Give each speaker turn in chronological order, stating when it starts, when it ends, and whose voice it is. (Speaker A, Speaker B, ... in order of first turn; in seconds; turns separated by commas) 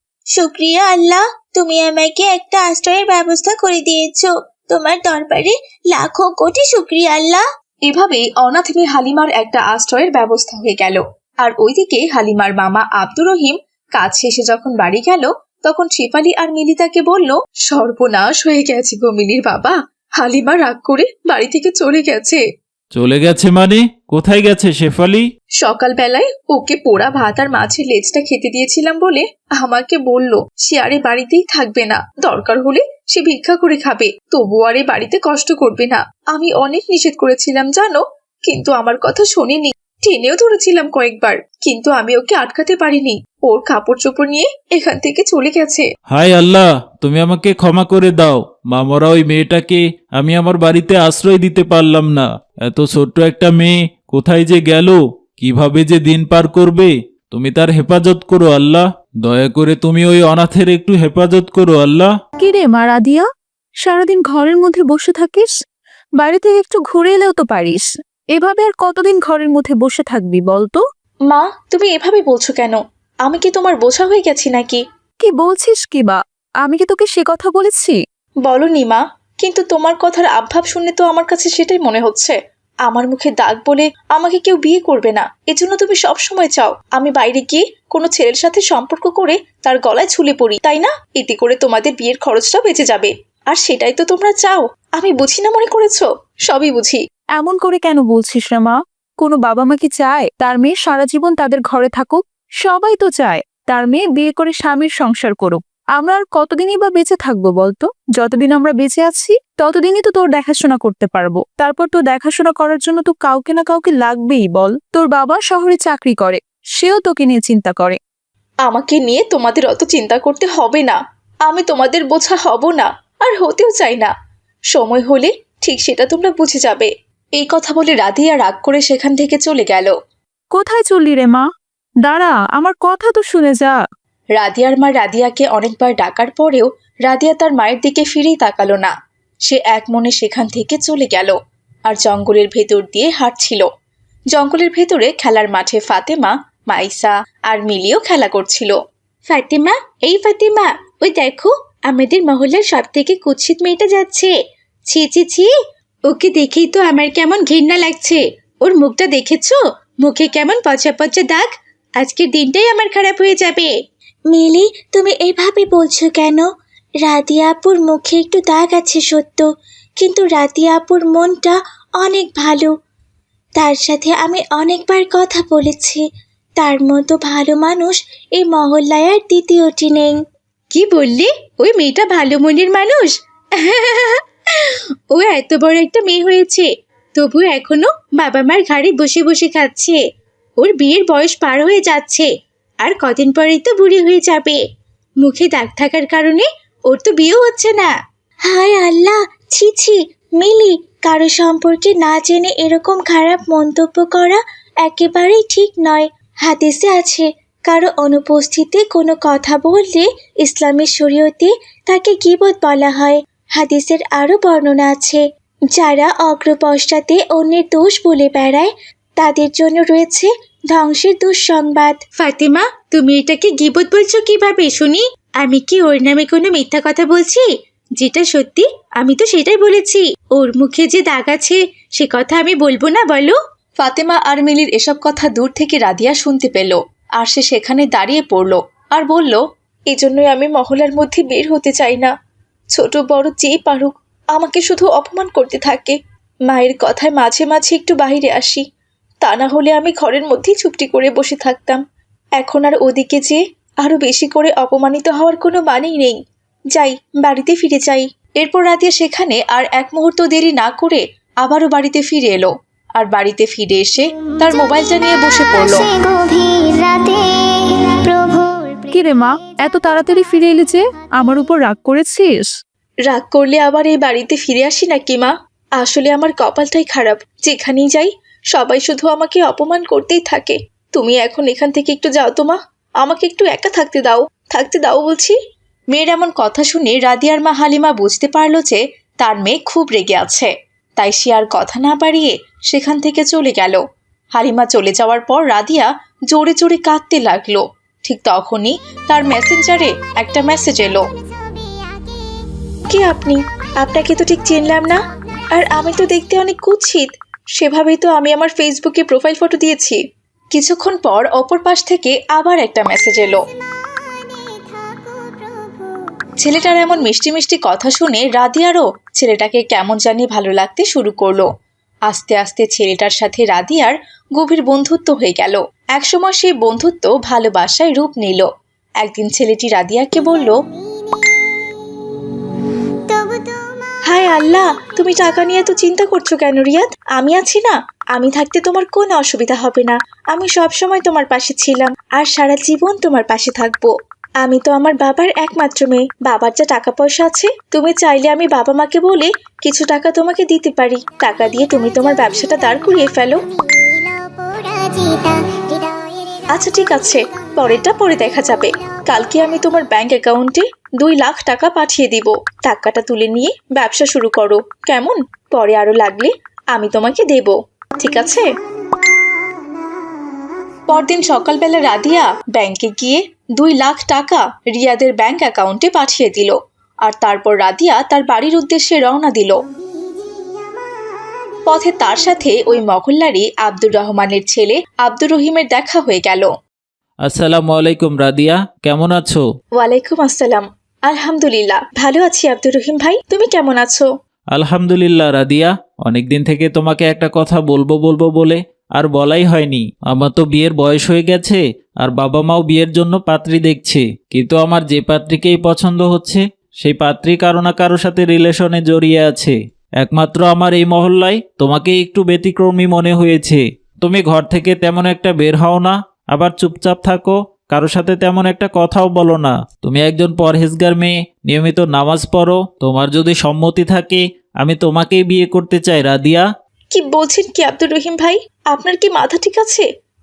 Speaker A: 0.3-7.4, Speaker B: 7.9-22.4, Speaker C: 22.9-25.2, Speaker B: 25.6-45.9, Speaker C: 46.1-62.1, Speaker D: 62.4-63.2, Speaker D: 63.8-65.5, Speaker D: 66.2-67.8, Speaker D: 68.3-70.8, Speaker B: 71.3-74.8, Speaker D: 75.2-78.0, Speaker B: 78.4-82.3, Speaker B: 82.8-97.0, Speaker D: 97.4-118.0, Speaker B: 118.6-124.1, Speaker B: 124.7-129.9, Speaker D: 130.5-131.4, Speaker D: 132.0-133.8, Speaker B: 134.4-138.9, Speaker B: 139.4-141.3, Speaker B: 141.9-143.7, Speaker B: 144.3-148.8, Speaker B: 149.3-154.3, Speaker B: 154.9-155.4, Speaker B: 156.1-161.5, Speaker B: 162.0-163.7, Speaker A: 164.3-166.4, Speaker A: 167.0-169.5, Speaker A: 170.0-172.7, Speaker A: 173.6-176.0, Speaker A: 176.6-180.1, Speaker B: 180.7-190.0, Speaker B: 190.6-192.3, Speaker A: 192.8-193.3, Speaker B: 193.1-194.6, Speaker A: 193.8-194.2, Speaker B: 195.2-197.9, Speaker A: 198.4-215.2, Speaker A: 215.7-222.1, Speaker B: 222.2-227.4, Speaker B: 228.0-242.1, Speaker B: 242.7-246.0, Speaker B: 246.5-248.6, Speaker B: 249.2-251.8, Speaker B: 252.4-256.2, Speaker B: 256.7-265.9, Speaker E: 264.2-270.4, Speaker D: 268.9-272.5, Speaker B: 273.1-285.4, Speaker B: 285.9-293.8, Speaker B: 294.3-301.0, Speaker E: 300.9-302.7, Speaker B: 302.9-305.0, Speaker E: 303.9-306.0, Speaker B: 305.5-310.0, Speaker B: 310.5-313.4, Speaker E: 313.3-317.1, Speaker B: 316.4-321.5, Speaker B: 322.1-328.5, Speaker B: 329.0-330.6, Speaker E: 330.1-332.3, Speaker E: 333.1-335.3, Speaker B: 334.0-353.4, Speaker E: 351.9-359.6, Speaker B: 356.5-368.5, Speaker E: 368.2-370.4, Speaker B: 370.9-379.6, Speaker E: 379.6-382.8, Speaker B: 381.7-386.5, Speaker C: 387.3-389.4, Speaker B: 389.8-394.1, Speaker C: 394.5-426.4, Speaker B: 426.9-429.9